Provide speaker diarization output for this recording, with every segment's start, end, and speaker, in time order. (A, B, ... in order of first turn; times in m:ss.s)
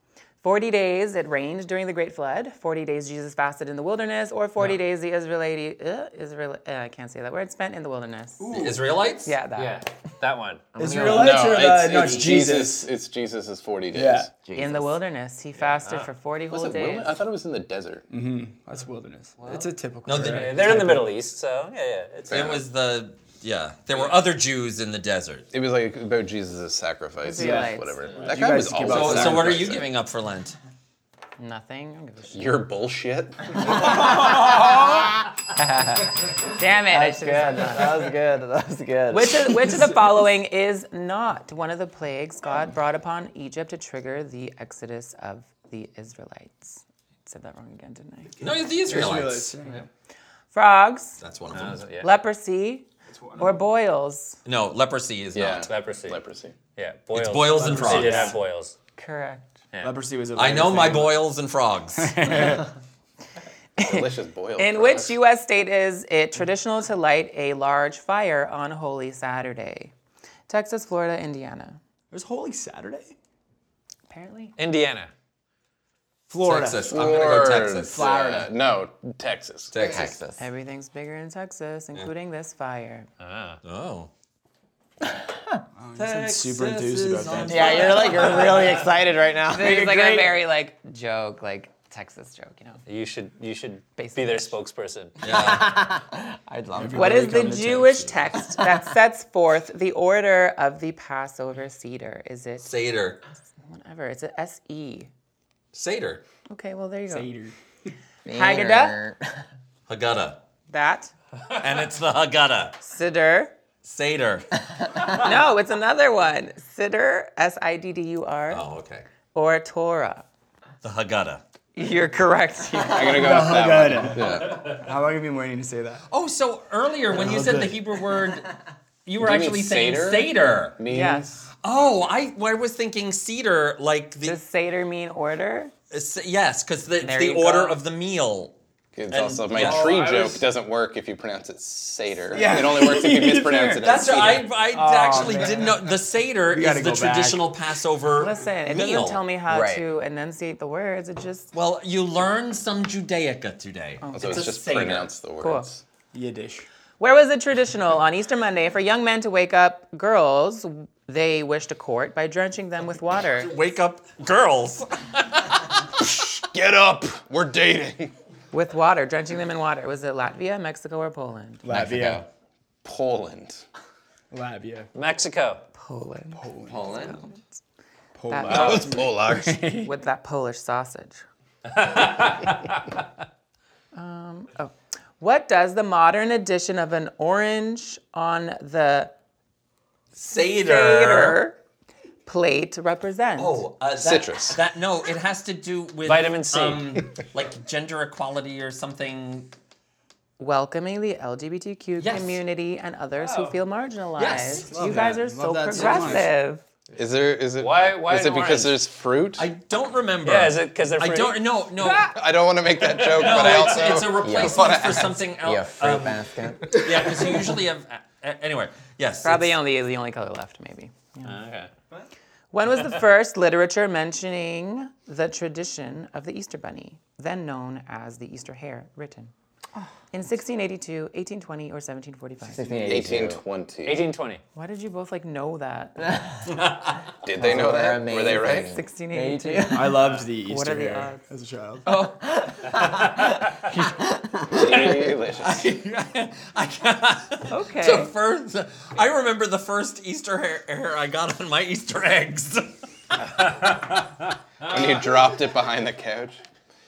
0:00.4-0:08.6 A
0:08.4-0:08.8 B
0:08.5-0:09.4 C
0:09.2-0:09.8 A
0:09.6-0:10.6 D
0:10.8-0:11.6 E
0:10.8-0:12.9 B
0:11.0-0:14.3 F
0:13.9-0:14.3 B
0:14.4-0:15.0 E
0:14.5-0:17.2 A
0:15.6-0:16.1 D
0:16.5-0:18.1 F
0:18.1-0:21.1 B
0:19.4-0:19.7 A
0:20.1-0:20.8 C
0:20.2-0:22.6 D
0:22.3-0:22.6 F
0:22.3-0:25.5 C
0:25.5-0:29.9 F
0:27.2-0:28.2 A
0:27.4-0:29.8 B
0:28.8-0:30.6 C
0:31.4-0:32.6 A
0:32.3-0:34.1 F
0:33.9-0:35.0 E
0:35.6-0:38.1 A
0:36.9-0:39.8 E
0:39.1-0:48.4 A
0:48.4-0:49.5 C
0:48.8-0:49.9 B
0:50.5-0:51.2 A
0:51.2-0:51.8 C
0:51.5-0:52.1 D
0:52.0-0:52.9 A
0:53.1-0:53.6 B
0:53.4-0:54.4 A
0:54.5-0:55.7 C
0:55.4-0:56.6 F
0:55.7-0:56.2 D
0:56.8-0:58.8 D
0:57.1-0:58.4 C
0:57.6-0:58.4 B
0:59.0-0:59.6 A
0:59.8-1:01.2 B
1:00.4-1:02.6 C
1:02.0-1:02.7 B
1:03.8-1:05.2 F
1:03.8-1:09.9 A
1:10.5-1:11.8 A
1:12.1-1:13.1 B
1:14.1-1:14.6 A
1:14.6-1:15.1 D
1:16.3-1:17.2 B
1:16.4-1:18.2 C
1:16.9-1:20.1 F
1:17.8-1:18.5 B
1:19.7-1:20.2 C
1:19.8-1:20.4 E
1:20.4-1:23.1 A
1:23.2-1:23.6 D
1:23.6-1:24.1 C
1:25.3-1:25.6 E
1:25.8-1:28.3 B
1:26.0-1:28.8 C
1:27.5-1:30.3 E
1:29.5-1:32.8 A
1:29.9-1:30.3 B
1:32.9-1:35.2 D
1:34.0-1:34.6 A
1:35.2-1:35.9 C
1:35.2-1:38.1 E
1:36.8-1:38.1 B
1:37.0-1:42.7 A
1:42.6-1:43.2 C
1:43.7-1:45.1 A
1:45.7-1:46.2 C
1:46.5-1:47.3 A
1:47.1-1:47.5 B
1:48.2-1:49.4 E
1:48.3-1:49.0 A
1:49.9-1:50.4 C
1:50.7-1:51.1 A
1:51.6-1:52.8 C
1:52.8-1:53.5 A
1:53.8-1:54.5 C
1:55.0-1:58.6 A
1:58.5-1:59.0 C
1:59.3-2:00.3 A
2:00.8-2:01.4 C
2:01.8-2:03.4 A
2:02.9-2:04.6 F
2:03.1-2:06.0 B
2:06.1-2:08.5 C
2:07.1-2:07.8 B
2:09.1-2:10.8 C
2:09.2-2:11.4 F
2:10.9-2:11.4 A
2:11.6-2:14.4 C
2:14.2-2:15.7 A
2:15.9-2:18.6 C
2:17.0-2:17.8 A
2:19.0-2:24.6 F
2:19.1-2:20.0 C
2:19.5-2:20.5 B
2:22.3-2:27.5 B
2:23.8-2:29.2 C
2:28.2-2:31.5 A
2:29.5-2:29.8 E
2:31.5-2:35.2 C
2:34.0-2:34.6 A
2:34.1-2:35.8 F
2:35.4-2:35.7 A
2:36.1-2:36.7 B
2:37.0-2:43.5 A
2:43.4-2:45.8 C
2:45.9-2:48.1 F
2:48.5-2:51.6 A
2:51.6-2:52.2 B
2:51.7-2:52.3 E
2:52.8-2:53.6 F
2:54.3-2:54.9 B
2:55.0-2:55.6 D
2:55.8-2:57.6 A
2:56.3-2:56.9 B
2:56.7-2:57.2 C
2:58.2-3:00.0 B
2:58.3-2:59.1 A
2:58.5-2:59.6 F
2:59.8-3:01.2 A
3:01.8-3:02.6 D
3:03.9-3:09.1 A
3:10.2-3:11.4 C
3:10.6-3:11.6 A
3:12.3-3:13.6 A
3:13.4-3:19.5 C
3:14.0-3:14.6 F
3:16.1-3:16.9 D
3:20.4-3:26.6 A
3:22.0-3:22.4 C
3:24.2-3:24.7 C
3:24.7-3:26.3 B
3:27.0-3:29.4 F
3:27.6-3:28.8 D
3:29.4-3:32.1 C
3:30.2-3:31.4 D
3:32.1-3:35.2 F
3:33.1-3:39.6 C
3:34.2-3:37.1 E
3:39.2-3:41.4 A
3:41.2-3:41.7 D
3:42.5-3:49.3 A
3:50.1-3:52.8 A
3:52.5-3:53.4 E
3:52.8-3:54.1 F
3:53.8-3:54.4 D
3:54.6-3:56.4 A
3:56.6-3:57.0 C
3:57.2-3:58.8 F
3:57.4-4:00.0 E
3:58.4-4:01.3 A
3:59.7-4:02.0 B
4:01.9-4:05.0 E
4:04.5-4:05.7 F
4:05.4-4:14.1 C
4:07.5-4:08.1 A
4:14.6-4:16.4 F